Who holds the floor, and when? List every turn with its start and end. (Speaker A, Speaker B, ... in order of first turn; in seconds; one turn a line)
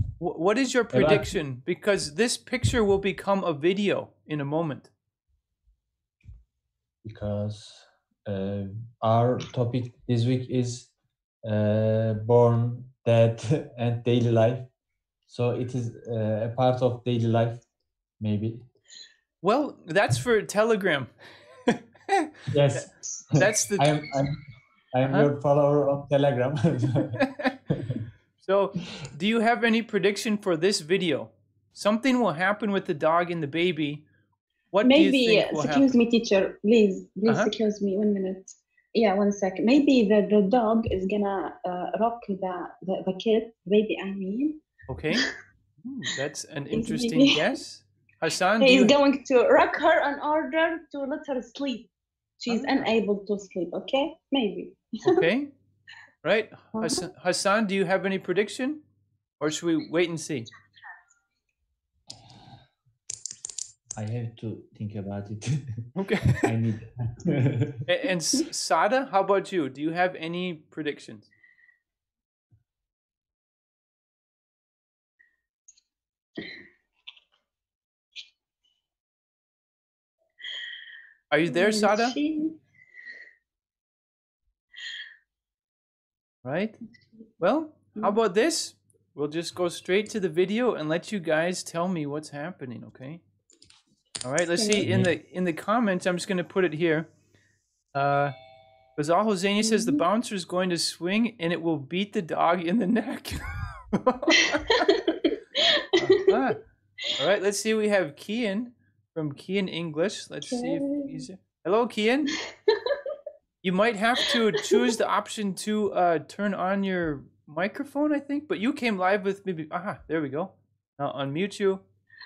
Speaker A: 0.2-4.9
Speaker B: 0.9-1.3
Speaker B: 7.0-10.9
Speaker B: 11.4-14.7
Speaker B: 15.3-17.6
Speaker B: 18.2-18.6
Speaker A: 19.4-21.1
Speaker A: 21.6-22.9
Speaker B: 22.5-22.9
Speaker A: 23.4-23.9
Speaker B: 23.8-24.4
Speaker B: 24.9-27.2
Speaker A: 25.0-25.3
Speaker A: 27.2-27.5
Speaker B: 27.7-28.0
Speaker A: 28.4-34.0
Speaker A: 34.7-35.9
Speaker C: 34.8-44.6
Speaker A: 37.2-37.5
Speaker A: 44.9-45.2
Speaker A: 45.8-48.9
Speaker C: 46.7-47.4
Speaker C: 48.6-51.9
Speaker C: 52.4-55.2
Speaker A: 52.5-52.9
Speaker A: 55.0-55.5
Speaker A: 56.2-58.8
Speaker C: 56.8-57.0
Speaker A: 59.4-60.5
Speaker B: 63.9-65.8
Speaker A: 66.0-66.5
Speaker B: 66.4-67.8
Speaker A: 67.8-71.3
Speaker A: 81.3-82.2
Speaker C: 81.5-82.5
Speaker A: 86.4-86.8
Speaker A: 87.4-93.2
Speaker A: 94.2-97.1
Speaker C: 94.6-94.8
Speaker B: 94.8-95.1
Speaker A: 97.9-98.3
Speaker A: 99.0-104.9
Speaker C: 99.6-100.0
Speaker C: 104.8-106.0
Speaker A: 105.9-106.6
Speaker A: 107.2-112.3
Speaker C: 110.5-111.2
Speaker C: 112.7-113.0
Speaker A: 113.6-121.8